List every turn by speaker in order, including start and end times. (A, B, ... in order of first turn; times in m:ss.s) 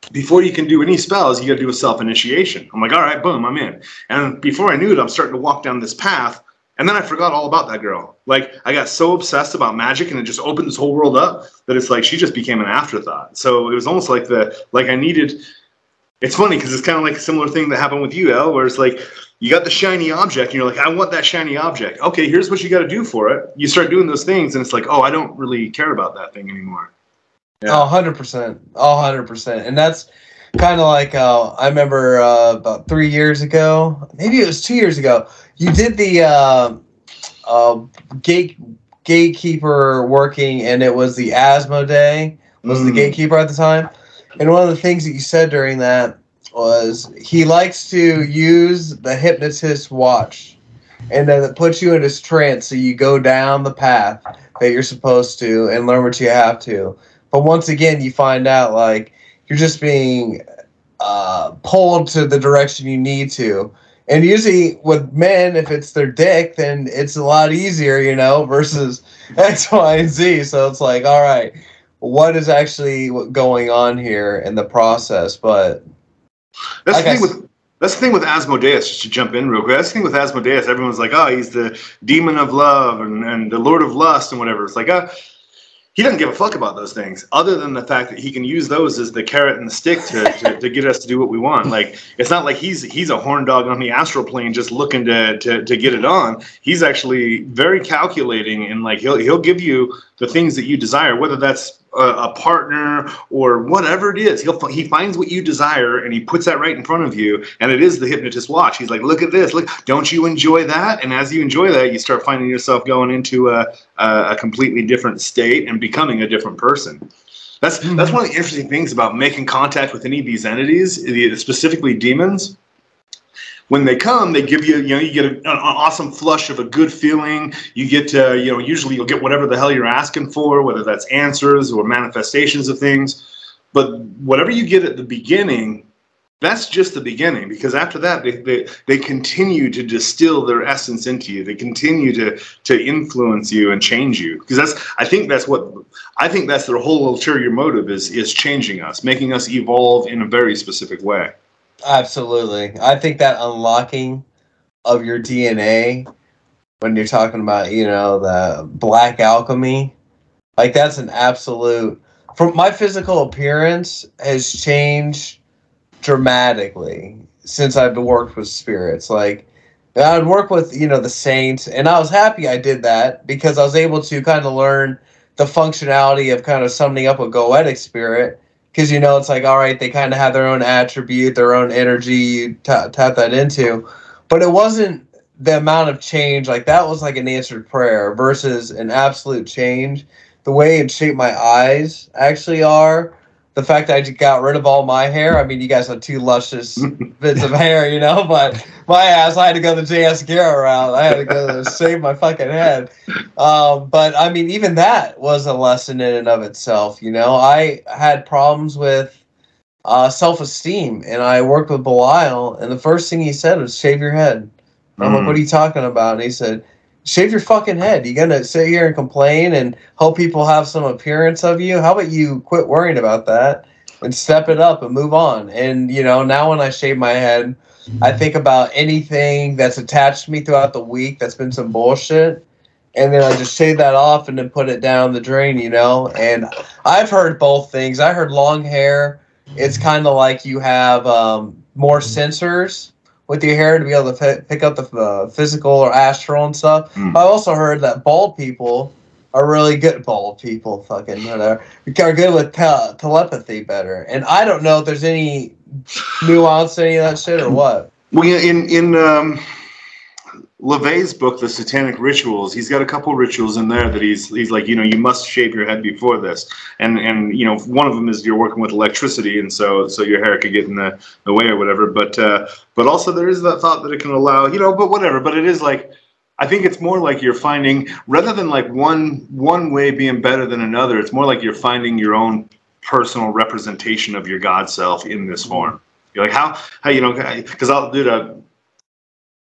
0:00.1-0:15.4 A
0:16.2-0:26.9 A
0:27.7-0:36.8 B
0:37.5-0:50.6 B
0:42.6-0:43.2 A
0:51.1-1:00.4 B
1:01.0-1:15.8 B
1:16.9-1:25.1 A
1:16.9-1:17.3 B
1:26.0-1:57.0 A
1:57.6-2:02.6 A
2:03.7-2:13.2 A
2:13.7-2:15.9 A
2:16.4-2:31.3 A
2:31.8-2:34.2 B
2:34.8-2:36.1 B
2:36.8-2:39.9 B
2:40.6-2:45.4 B
2:46.0-3:29.2 B
3:29.8-3:52.4 B
3:35.0-3:35.4 A
3:53.0-4:15.6 B
4:16.1-4:17.9 B
4:18.1-4:19.4 A
4:20.6-4:48.4 A